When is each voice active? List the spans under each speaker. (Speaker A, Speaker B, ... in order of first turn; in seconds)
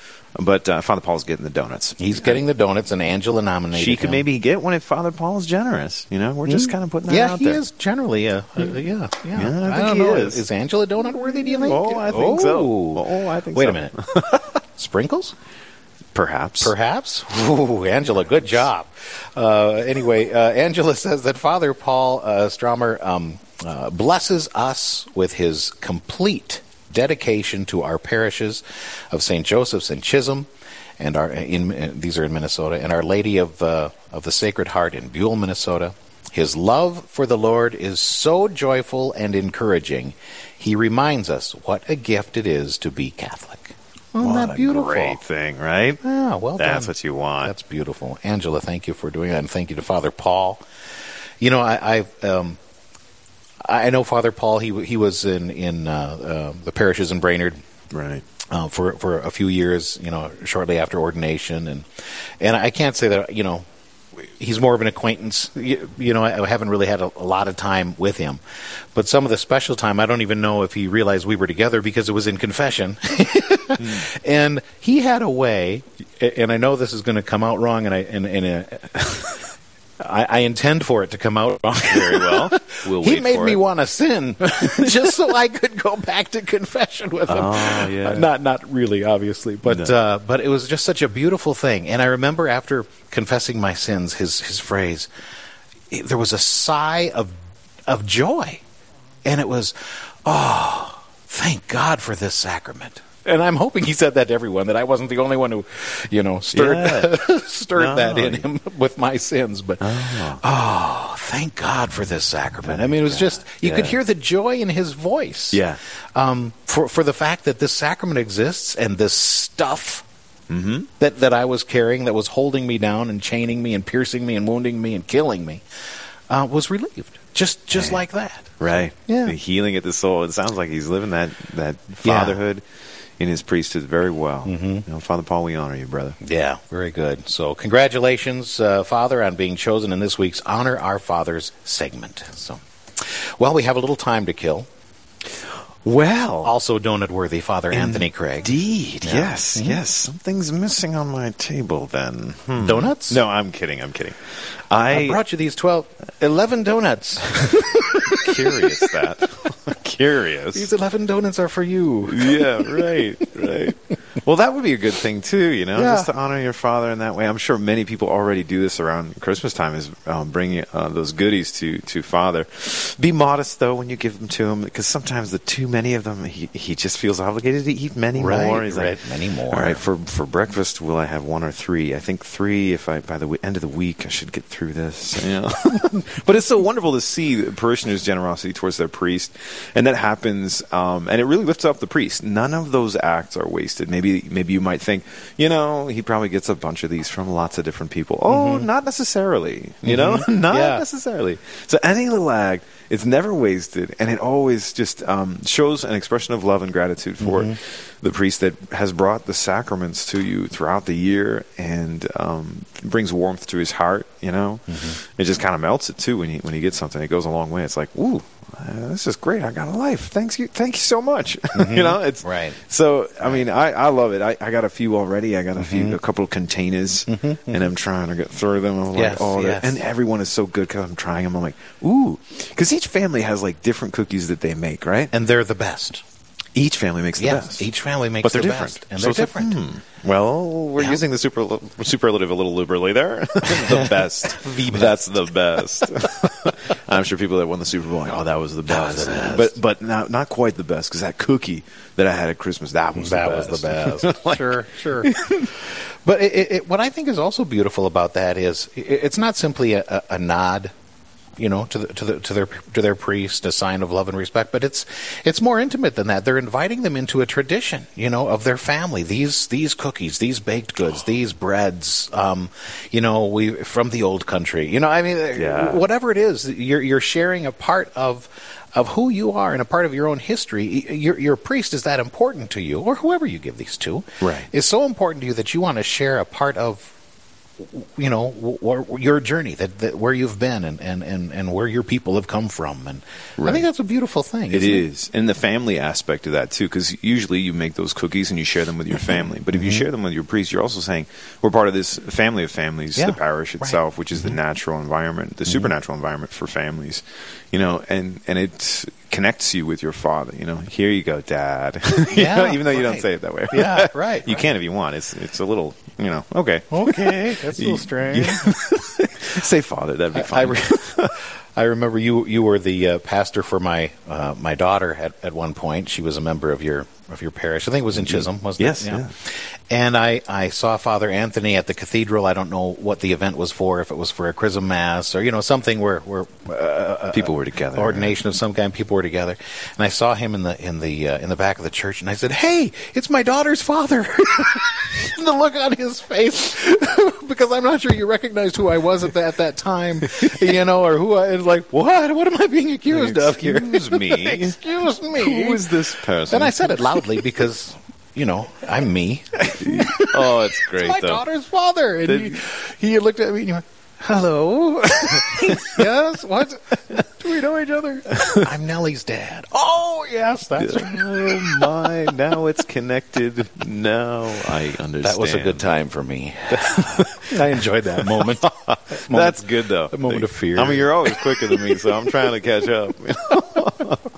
Speaker A: 0.3-2.4, 3.7-7.6, 9.3-10.4, 11.5-14.4, 16.1-16.7, 44.2-46.0, 46.6-47.5, 57.9-58.2, 73.8-74.0, 81.9-83.6, 87.3-88.3, 89.6-89.9, 106.5-107.2, 107.7-108.5, 109.8-110.4, 112.6-114.0, 115.5-115.8, 120.5-120.9, 127.7-128.0, 128.6-132.6, 133.2-136.2, 145.8-146.5, 147.7-155.2, 158.1-160.7, 162.1-235.1, 236.5-237.7, 238.2-255.4, 275.3-275.9, 284.2-284.5, 293.4-293.6, 294.5-321.2, 327.9-329.1, 337.1-338.2, 350.2-350.4, 352.9-357.2, 359.5-361.2, 362.0-362.4, 365.0-365.6, 370.6-375.6, 376.5-384.0
Speaker B: 2.0-4.2, 6.4-15.3, 16.6-30.5, 31.0-45.2, 46.0-50.6, 51.4-52.6, 53.6-57.6, 58.5-61.9, 62.4-63.6, 64.2-68.4, 68.9-79.5, 80.0-95.1, 95.9-97.3, 97.9-98.6, 99.2-120.0, 121.0-125.6, 126.3-129.3, 132.0-132.4, 134.4-134.8, 136.2-144.7, 146.4-149.8, 152.6-153.2, 154.9-158.9, 160.5-163.6, 165.7-166.1, 178.1-179.8, 198.3-198.7, 199.8-200.8, 207.2-207.6, 214.7-215.0, 221.5-222.6, 225.6-226.0, 227.1-227.7, 228.9-229.8, 235.1-236.0, 237.2-239.6, 243.5-245.1, 248.7-249.6, 252.9-260.7, 261.4-286.9, 287.6-294.9, 299.6-299.8, 302.9-303.8, 312.1-314.5, 316.7-318.6, 320.1-355.7, 356.3-371.9, 375.0-382.1